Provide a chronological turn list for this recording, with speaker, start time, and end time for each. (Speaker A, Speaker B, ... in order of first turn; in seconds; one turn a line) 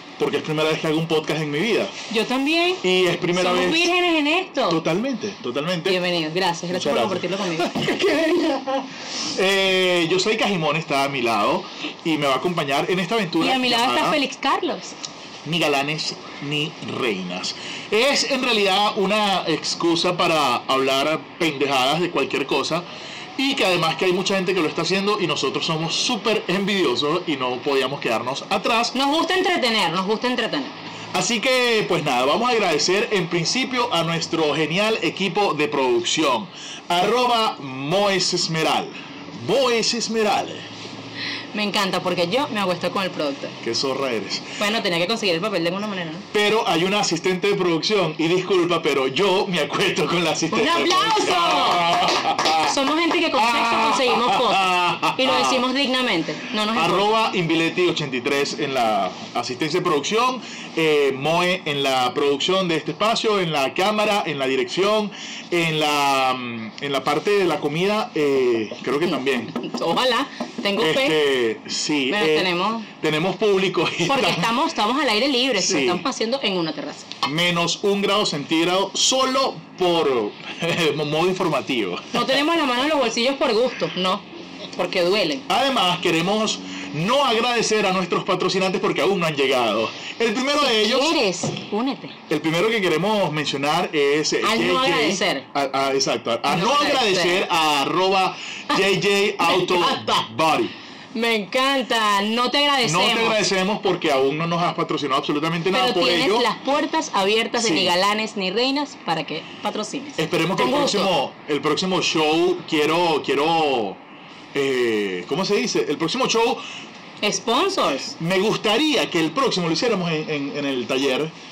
Speaker A: 0.2-1.9
Speaker B: 2.1-2.8
Speaker A: 2.8-3.9
Speaker B: 3.3-4.8
Speaker A: 4.7-6.0
Speaker B: 5.9-7.8
Speaker A: 6.7-14.2
Speaker B: 13.4-14.9
Speaker A: 15.4-22.8
Speaker A: 23.4-28.9
Speaker B: 28.9-30.8
Speaker A: 31.1-40.7
Speaker B: 41.5-43.5
Speaker A: 43.6-44.6
Speaker B: 44.6-46.2
Speaker A: 46.3-52.8
Speaker B: 50.5-51.8
Speaker B: 52.6-57.1
Speaker A: 53.4-55.6
Speaker A: 56.7-69.5
Speaker B: 69.1-71.2
Speaker A: 70.8-74.5
Speaker B: 72.1-72.9
Speaker B: 74.0-77.1
Speaker A: 75.6-76.0
Speaker A: 77.2-82.4
Speaker B: 82.1-85.5
Speaker A: 85.5-91.2
Speaker B: 90.6-92.1
Speaker A: 92.3-100.7
Speaker B: 94.4-95.4
Speaker B: 96.5-97.4
Speaker B: 99.4-100.2
Speaker B: 101.1-103.4
Speaker A: 102.8-106.5
Speaker B: 105.7-111.1
Speaker A: 107.5-107.9
Speaker A: 110.2-114.0
Speaker A: 114.5-116.6
Speaker B: 117.2-118.1
Speaker A: 118.1-121.3